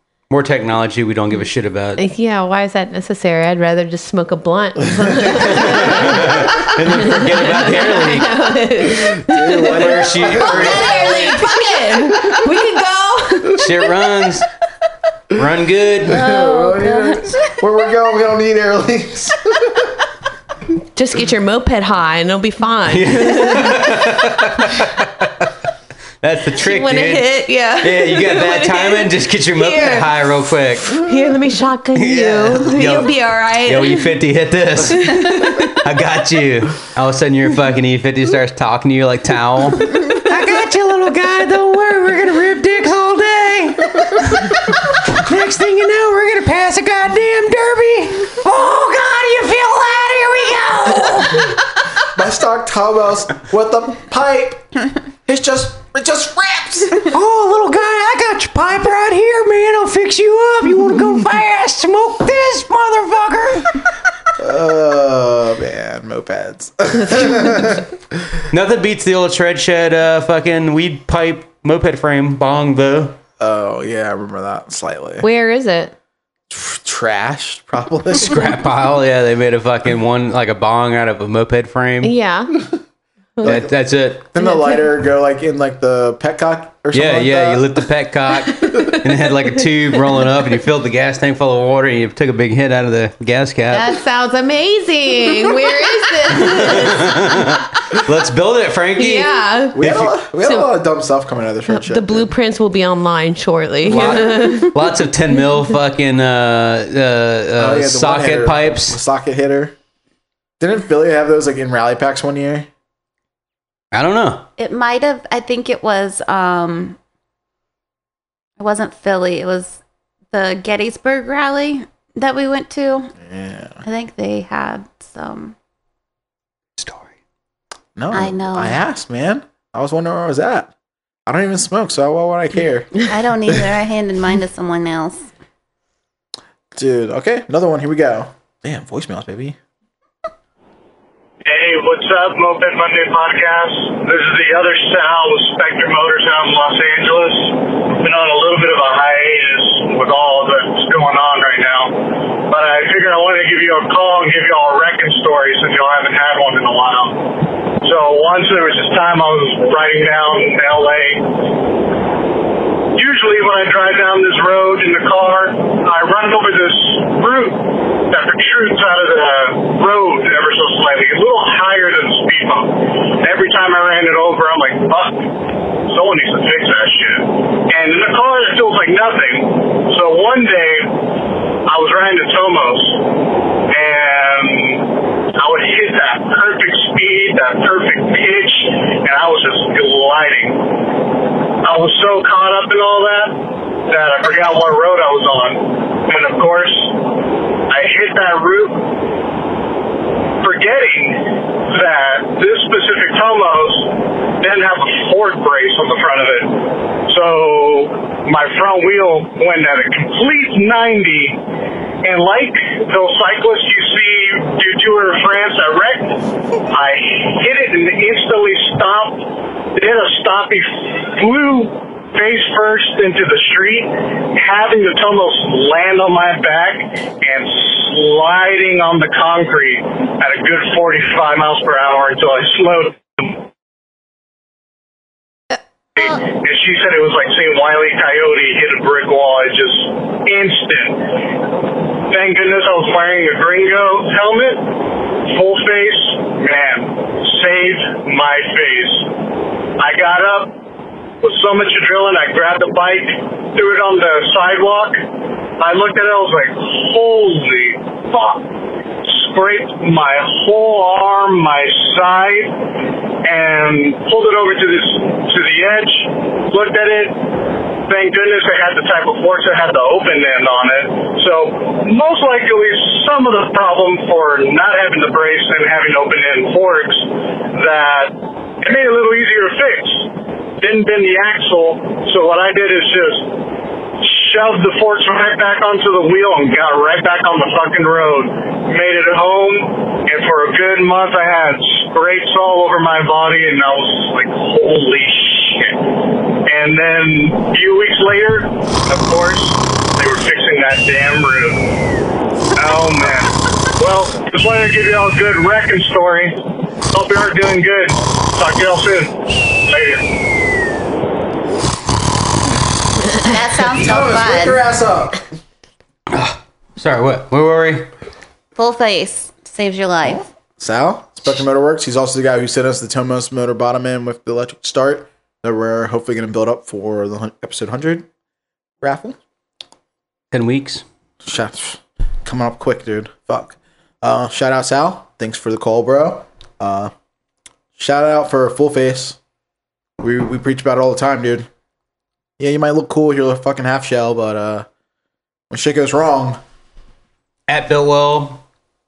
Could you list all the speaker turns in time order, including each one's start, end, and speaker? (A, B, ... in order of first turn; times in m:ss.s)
0:00.3-0:02.0 A
0:02.0-0:09.9 B
0:05.4-0:11.3 A
0:09.2-0:11.2 C
0:10.4-0:13.7 B
0:13.6-0:14.5 A
0:15.3-0:16.2 A
0:16.0-0:19.9 C
0:16.1-0:17.3 D
0:21.0-0:23.9 B
0:22.9-0:24.9 A
0:26.2-0:27.3 A
0:26.6-0:30.1 B
0:27.8-0:31.0 A
0:30.9-0:34.1 B
0:32.0-0:51.6 A
0:34.9-0:35.8 B
0:52.1-0:54.7 C
0:55.3-0:57.1 C
0:57.1-1:03.8 A
1:04.4-1:07.9 C
1:08.5-1:13.2 A
1:13.4-1:15.3 C
1:15.2-1:15.9 B
1:16.5-1:18.5 C
1:18.2-1:22.1 A
1:22.0-1:22.6 B
1:23.4-1:23.7 C
1:23.4-1:24.3 A
1:24.3-1:27.8 C
1:24.4-1:24.8 B
1:26.9-1:34.0 A
1:33.7-1:37.3 B
1:36.4-1:40.1 A
1:39.0-1:39.8 B
1:39.8-1:42.3 C
1:40.4-1:40.7 B
1:41.7-1:44.7 B
1:43.9-1:49.0 A
1:47.6-1:49.8 C
1:50.6-1:52.7 C
1:53.9-1:54.5 A
1:54.6-1:57.0 D
1:58.6-1:59.8 D
2:00.3-2:03.1 D
2:03.2-2:03.8 C
2:03.8-2:05.6 D
2:06.8-2:07.1 A
2:08.0-2:10.7 C
2:08.1-2:08.8 D
2:11.3-2:13.6 C
2:13.0-2:15.3 D
2:16.8-2:19.6 C
2:21.4-2:41.3 E
2:43.0-2:55.3 E
2:55.9-3:01.0 E
3:01.7-3:03.0 E
3:03.7-3:10.7 E
3:11.6-3:17.0 E
3:17.7-3:18.9 E
3:20.4-3:31.4 E
3:32.0-3:36.2 E
3:36.7-3:39.2 E
3:39.8-3:53.4 E
3:56.0-4:01.2 E
4:02.1-4:04.7 E
4:05.2-4:09.1 E
4:09.8-4:10.6 E
4:11.2-4:15.0 E
4:15.6-4:18.5 E
4:19.0-4:22.6 E
4:23.2-4:27.2 E
4:27.9-4:43.4 E
4:44.0-4:55.9 E
4:56.5-5:01.7 E
5:02.6-5:06.4 E
5:06.9-5:10.1 E
5:13.2-5:14.6 D
5:13.7-5:15.2 C
5:16.1-5:17.9 A
5:18.6-5:20.2 D
5:20.0-5:28.1 C
5:28.8-5:29.2 C
5:30.3-5:30.8 A
5:31.2-5:36.9 C
5:37.8-5:39.2 C
5:40.0-5:41.5 C
5:42.4-5:44.7 C
5:45.5-5:46.4 C
5:47.5-5:48.4 A